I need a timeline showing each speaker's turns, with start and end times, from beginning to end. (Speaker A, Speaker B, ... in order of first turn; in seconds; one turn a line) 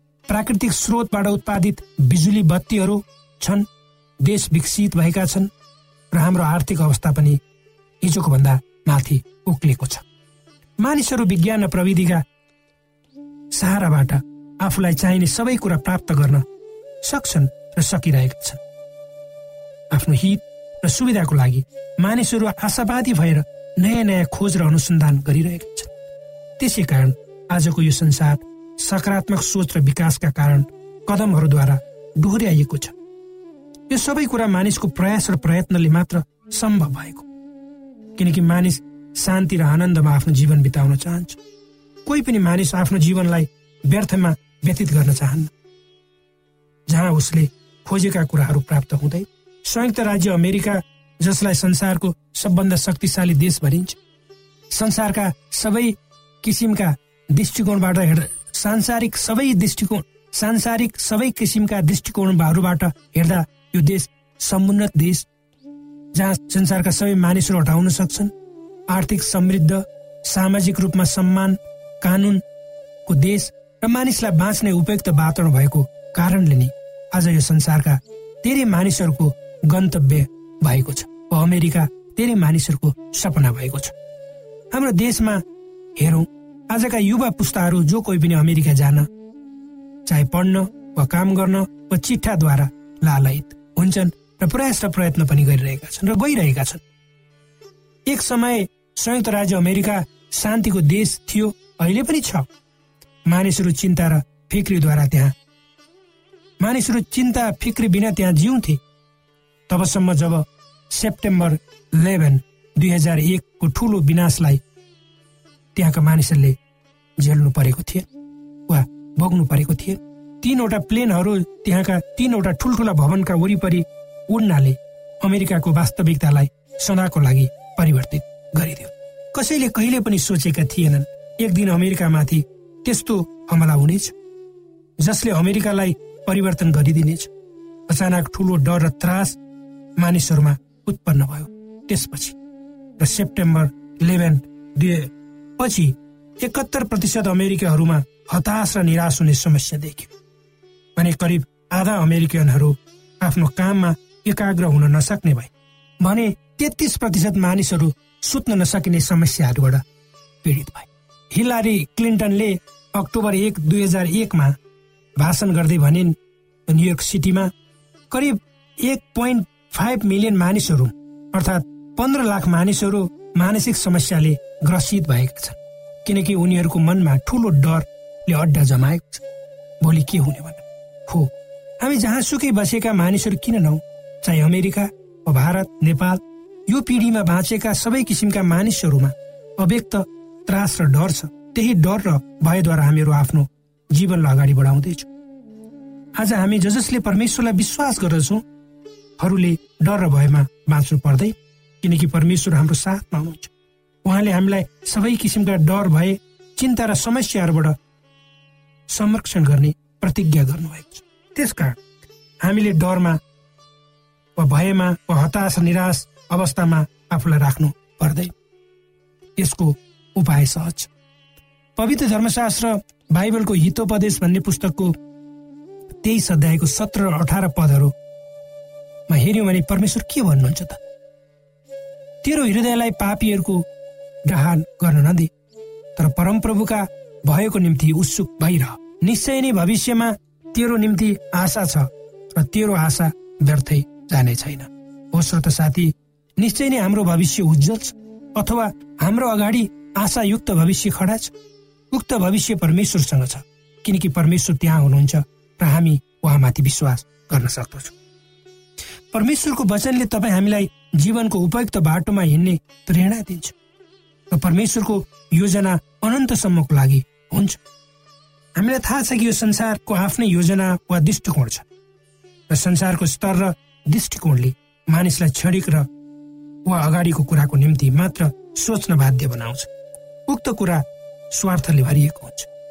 Speaker A: 0.3-3.7
Speaker A: 4.2-5.5
Speaker A: 6.1-7.4
Speaker A: 8.0-10.1
Speaker A: 10.8-12.2
Speaker A: 13.5-16.4
Speaker A: 17.0-18.6
Speaker A: 19.9-25.9
Speaker A: 26.6-33.0
Speaker A: 33.9-37.3
Speaker A: 38.2-41.4
Speaker A: 42.1-45.5
Speaker A: 46.9-54.0
Speaker A: 54.7-65.3
Speaker A: 66.2-68.3
Speaker A: 68.9-72.4
Speaker A: 73.1-84.0
Speaker A: 84.7-85.4
Speaker A: 86.0-89.1
Speaker A: 90.1-96.8
Speaker A: 98.1-102.5
Speaker A: 103.3-105.3
Speaker A: 106.6-108.8
Speaker A: 109.7-114.6
Speaker A: 115.8-116.6
Speaker A: 117.2-118.1
Speaker A: 118.7-134.2
Speaker A: 135.0-137.3
Speaker A: 137.9-139.4
Speaker A: 140.0-142.4
Speaker A: 143.0-150.1
Speaker A: 151.0-159.8
Speaker A: 160.4-164.6
Speaker A: 165.2-166.2
Speaker A: 166.7-167.5
Speaker A: 168.1-179.2
Speaker A: 179.8-195.1
Speaker A: 196.2-198.4
Speaker A: 199.2-203.5
Speaker A: 204.1-207.8
Speaker A: 208.9-211.8
Speaker A: 212.4-213.2
Speaker A: 214.4-218.3
Speaker A: 219.4-220.9
Speaker A: 221.8-225.0
Speaker A: 226.0-227.9
Speaker A: 229.1-230.8
Speaker A: 232.2-233.7
Speaker A: 234.3-235.3
Speaker A: 236.0-251.3
Speaker A: 251.9-258.0
Speaker A: 259.1-263.6
Speaker A: 264.3-267.6
Speaker A: 268.6-271.7
Speaker A: 272.5-275.9
Speaker A: 276.7-279.7
Speaker A: 280.3-282.5